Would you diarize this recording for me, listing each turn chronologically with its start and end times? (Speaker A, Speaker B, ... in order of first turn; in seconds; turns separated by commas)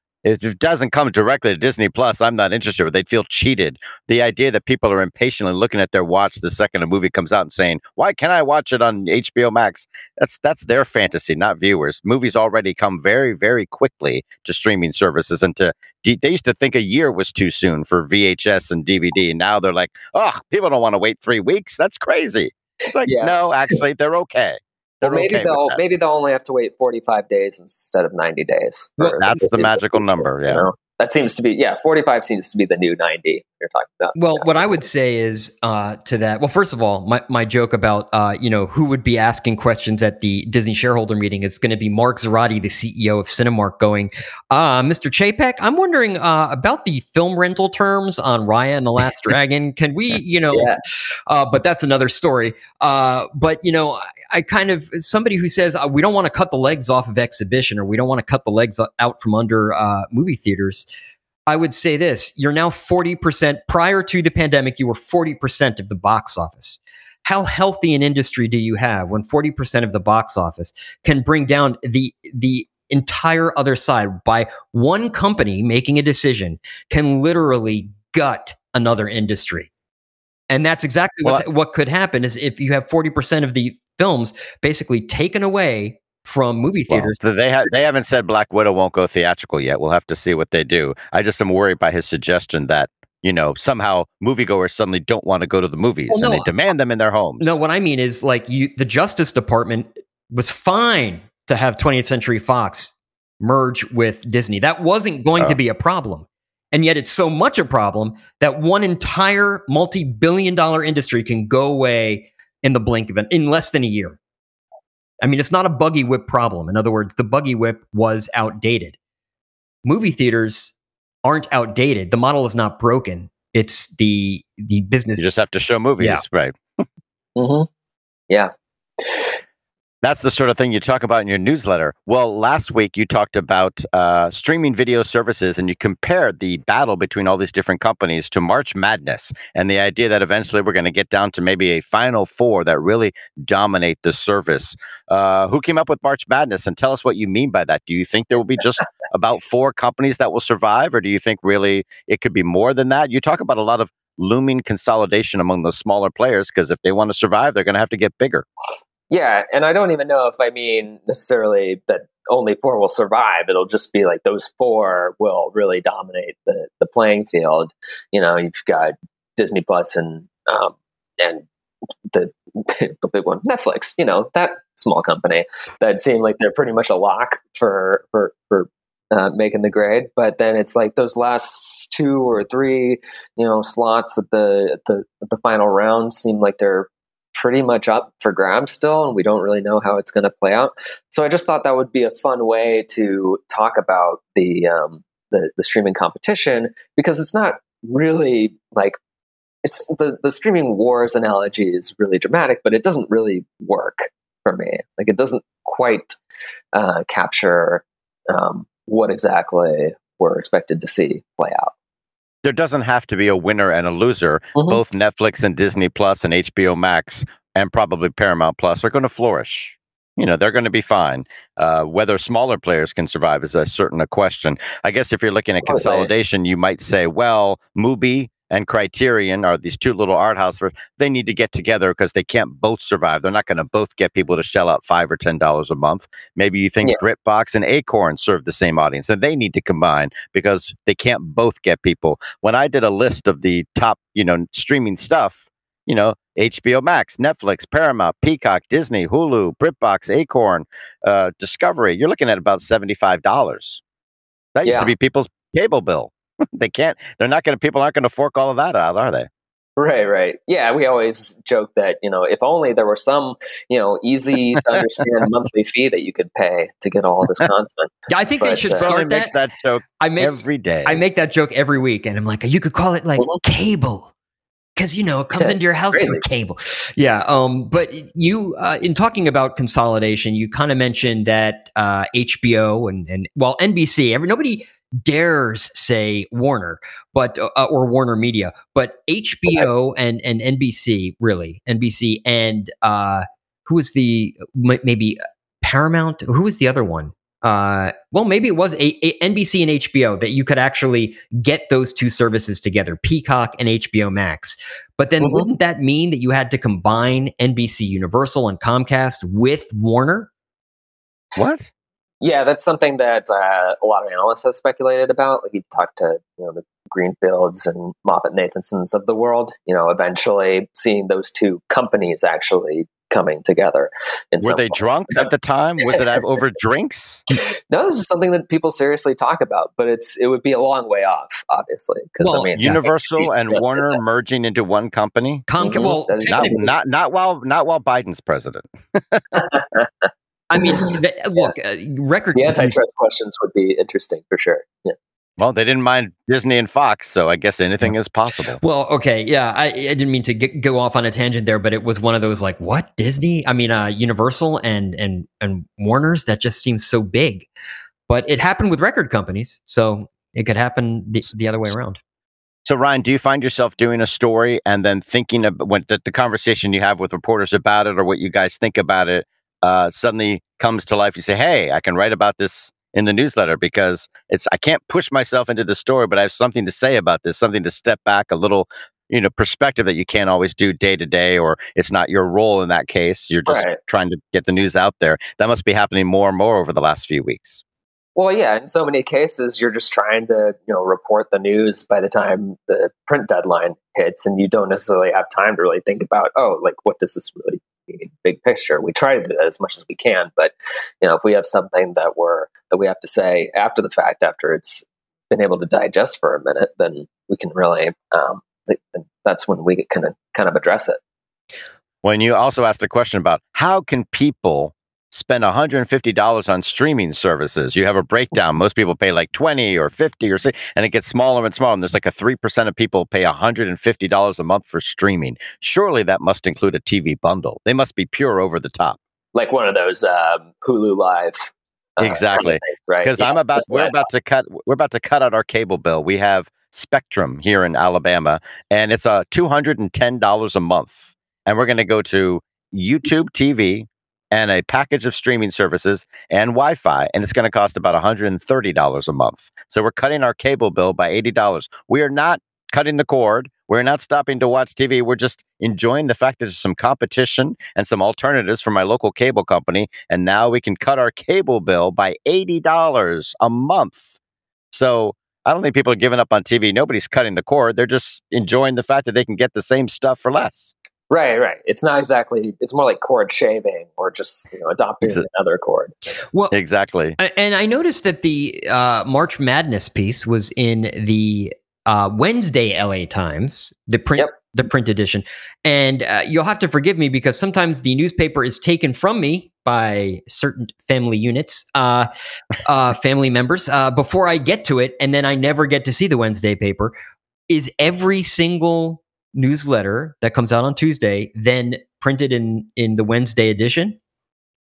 Speaker A: 0.2-25.8, Speaker B: 23.0-23.8, Speaker B: 25.0-34.8, Speaker A: 29.2-30.6, Speaker C: 34.1-50.7, Speaker B: 50.5-50.8, Speaker C: 51.3-60.9, Speaker C: 61.5-79.7, Speaker C: 80.5-87.2, Speaker A: 86.9-97.6, Speaker C: 96.1-96.5, Speaker C: 97.4-114.2, Speaker C: 115.2-119.0, Speaker C: 119.8-125.3, Speaker A: 125.2-126.8, Speaker B: 127.4-127.7, Speaker A: 130.0-158.5, Speaker B: 159.1-171.4, Speaker B: 172.1-199.0, Speaker B: 199.6-206.2, Speaker B: 206.7-211.7, Speaker A: 212.4-253.8, Speaker B: 214.6-214.8, Speaker B: 225.6-226.1, Speaker A: 254.6-259.3, Speaker B: 254.6-254.9, Speaker B: 259.8-268.9, Speaker C: 268.1-269.3, Speaker A: 268.8-271.0, Speaker C: 270.0-274.1, Speaker C: 274.8-310.3, Speaker B: 275.4-276.2, Speaker B: 305.2-305.5, Speaker A: 311.4-311.7, Speaker B: 312.2-325.3, Speaker A: 324.4-327.2, Speaker B: 325.8-326.2, Speaker B: 327.7-334.0, Speaker C: 332.2-332.5, Speaker A: 332.6-335.5, Speaker C: 335.5-336.7, Speaker B: 335.6-336.7, Speaker A: 336.3-339.5, Speaker B: 339.4-339.7, Speaker C: 340.5-342.8, Speaker B: 340.6-341.5, Speaker B: 342.4-345.0, Speaker A: 345.4-348.6, Speaker C: 348.6-357.5, Speaker C: 358.1-362.0, Speaker A: 362.6-387.6, Speaker B: 383.5-383.8, Speaker B: 388.1-411.0, Speaker A: 412.0-429.0, Speaker B: 429.3-434.1, Speaker A: 432.0-464.2, Speaker A: 464.7-470.7, Speaker B: 471.1-476.0, Speaker A: 476.5-477.2, Speaker C: 477.2-492.1, Speaker C: 492.6-496.9, Speaker C: 497.5-504.0